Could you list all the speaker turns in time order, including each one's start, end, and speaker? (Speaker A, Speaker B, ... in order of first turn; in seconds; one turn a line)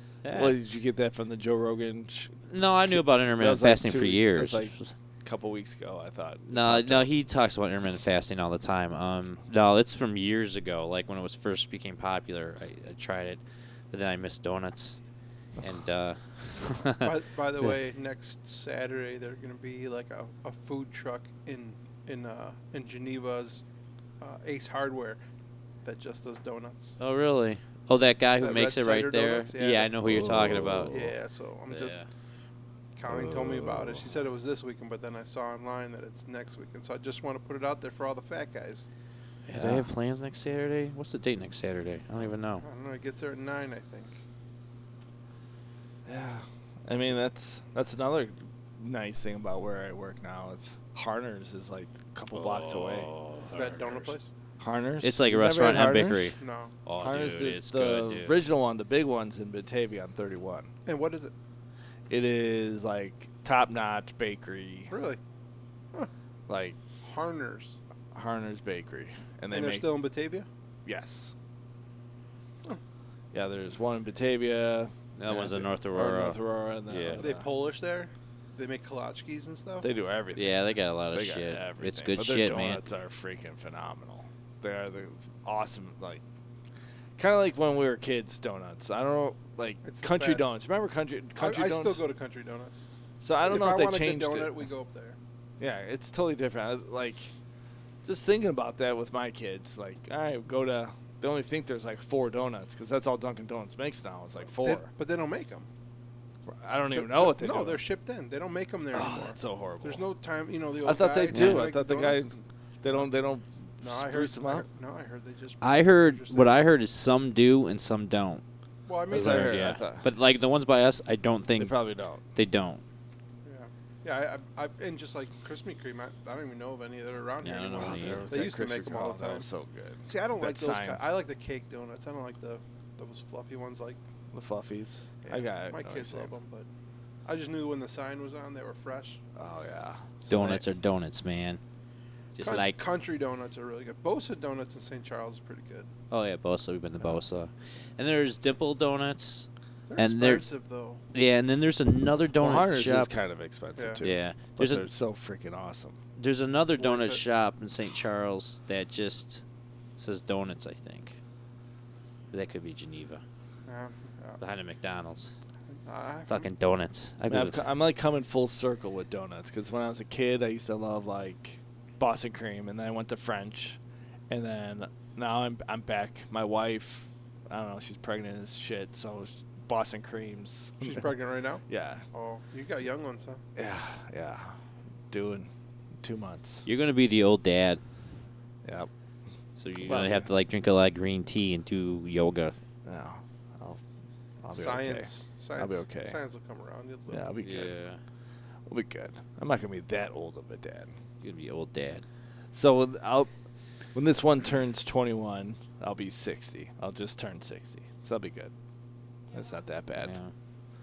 Speaker A: 0.2-0.6
Speaker B: 0.3-7.1
Speaker A: 2.5-4.9
Speaker A: 6.5-15.0
Speaker A: 15.6-17.1
Speaker C: 16.9-23.6
Speaker C: 24.2-25.2
Speaker C: 25.8-27.0
Speaker A: 27.0-31.1
Speaker C: 28.4-30.0
Speaker B: 30.0-31.0
Speaker C: 30.9-32.0
Speaker A: 31.7-32.1
Speaker C: 33.0-38.9
Speaker B: 33.1-33.9
Speaker A: 39.5-42.6
Speaker B: 39.5-39.9
Speaker C: 42.6-44.2
Speaker B: 46.1-53.1
Speaker A: 52.3-54.1
Speaker C: 53.5-54.3
Speaker B: 54.6-56.4
Speaker A: 55.0-58.4
Speaker C: 56.4-56.7
Speaker B: 57.0-60.7
Speaker C: 60.9-61.3
Speaker B: 62.1-64.9
Speaker C: 64.9-65.2
Speaker B: 66.5-66.8
Speaker C: 67.0-67.8
Speaker B: 68.1-69.9
Speaker C: 69.5-70.5
Speaker B: 70.9-71.3
Speaker B: 73.3-77.5
Speaker A: 75.2-77.2
Speaker C: 77.2-79.9
Speaker B: 79.8-86.2
Speaker A: 80.3-82.8
Speaker B: 87.2-92.0
Speaker C: 89.8-90.5
Speaker C: 91.4-92.9
Speaker B: 93.2-94.6
Speaker C: 93.4-95.2
Speaker B: 95.6-97.3
Speaker B: 98.0-104.9
Speaker C: 104.6-105.7
Speaker B: 106.5-107.8
Speaker C: 106.9-113.1
Speaker B: 108.9-110.0
Speaker B: 110.8-114.7
Speaker A: 111.3-111.6
Speaker C: 113.8-116.6
Speaker A: 115.6-118.4
Speaker C: 118.9-119.6
Speaker B: 119.1-120.0
Speaker A: 119.1-121.8
Speaker B: 121.6-122.2
Speaker A: 122.3-122.8
Speaker C: 123.5-129.5
Speaker A: 127.4-128.3
Speaker B: 127.8-131.0
Speaker C: 130.1-134.0
Speaker B: 134.3-136.3
Speaker C: 135.2-136.7
Speaker C: 137.2-139.2
Speaker B: 139.4-140.6
Speaker A: 140.3-141.6
Speaker A: 142.3-142.8
Speaker C: 142.4-145.9
Speaker A: 146.1-150.4
Speaker C: 149.9-151.0
Speaker A: 151.1-153.1
Speaker B: 152.4-156.0
Speaker C: 153.8-154.0
Speaker A: 154.0-154.8
Speaker A: 156.2-159.4
Speaker C: 156.8-157.2
Speaker A: 160.0-161.2
Speaker A: 162.3-163.2
Speaker C: 163.7-164.4
Speaker A: 164.4-165.3
Speaker C: 165.7-166.5
Speaker A: 166.3-167.6
Speaker B: 167.3-173.8
Speaker B: 174.3-181.1
Speaker C: 180.8-183.4
Speaker B: 181.7-182.1
Speaker B: 183.6-184.6
Speaker B: 185.1-185.5
Speaker B: 186.0-186.7
Speaker A: 186.7-187.8
Speaker B: 188.7-188.9
Speaker A: 189.6-192.6
Speaker B: 189.8-190.3
Speaker B: 192.8-193.8
Speaker B: 194.4-196.2
Speaker C: 194.5-197.2
Speaker B: 197.1-197.7
Speaker A: 197.4-198.0
Speaker B: 198.7-200.9
Speaker A: 201.2-202.0
Speaker B: 202.5-203.3
Speaker B: 203.9-208.5
Speaker B: 209.3-210.2
Speaker A: 210.0-210.3